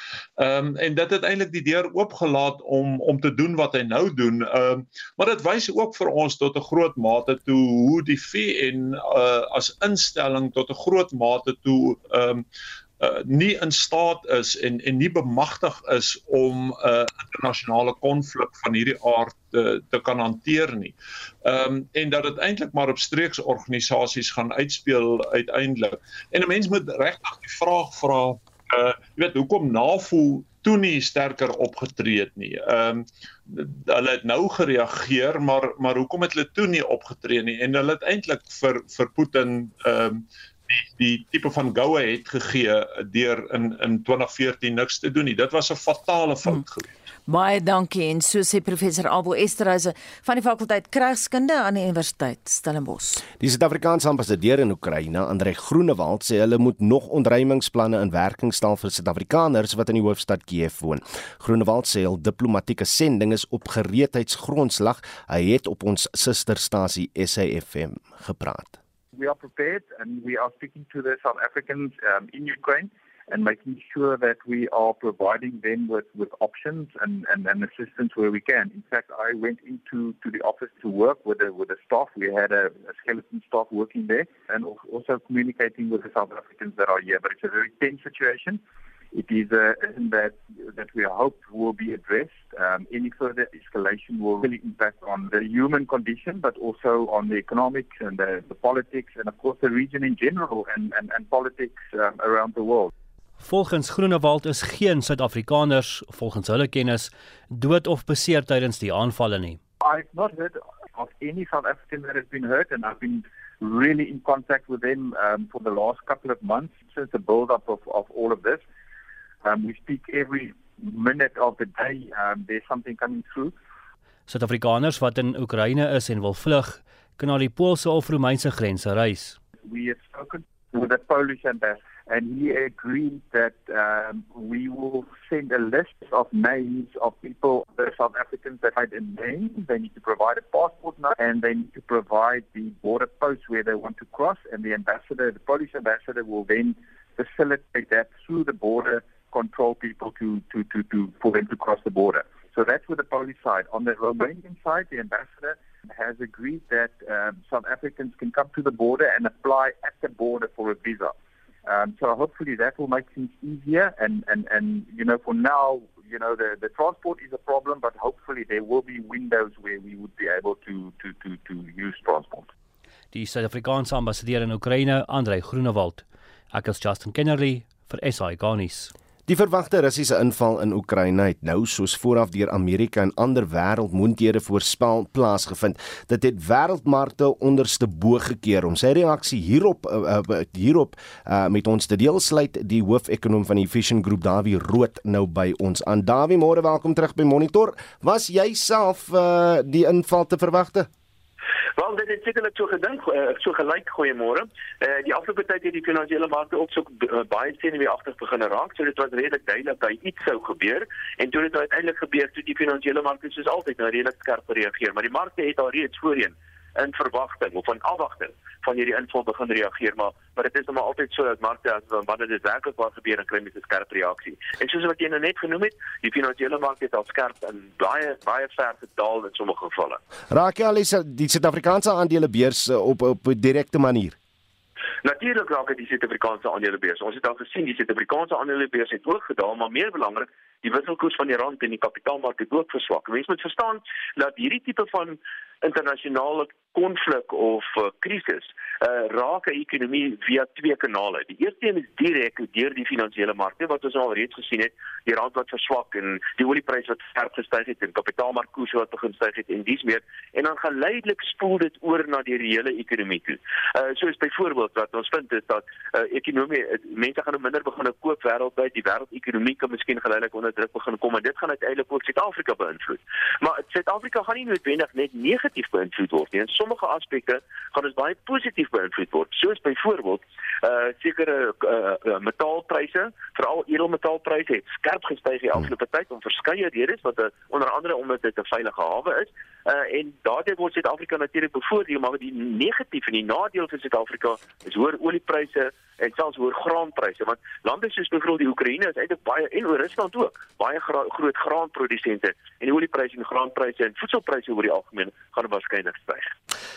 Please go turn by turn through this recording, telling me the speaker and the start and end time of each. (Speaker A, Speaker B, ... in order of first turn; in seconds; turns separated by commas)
Speaker A: 0.4-12.4, Speaker A: 13.0-46.9, Speaker B: 47.3-53.2, Speaker C: 53.4-68.8, Speaker D: 69.1-88.6, Speaker D: 89.1-102.9, Speaker E: 103.4-109.6, Speaker D: 109.8-118.6, Speaker D: 119.4-123.5, Speaker E: 124.3-129.4, Speaker D: 129.6-161.1, Speaker D: 161.7-172.5, Speaker E: 173.1-178.9, Speaker C: 179.3-200.9, Speaker F: 201.8-230.0, Speaker C: 230.3-234.2, Speaker F: 235.0-306.3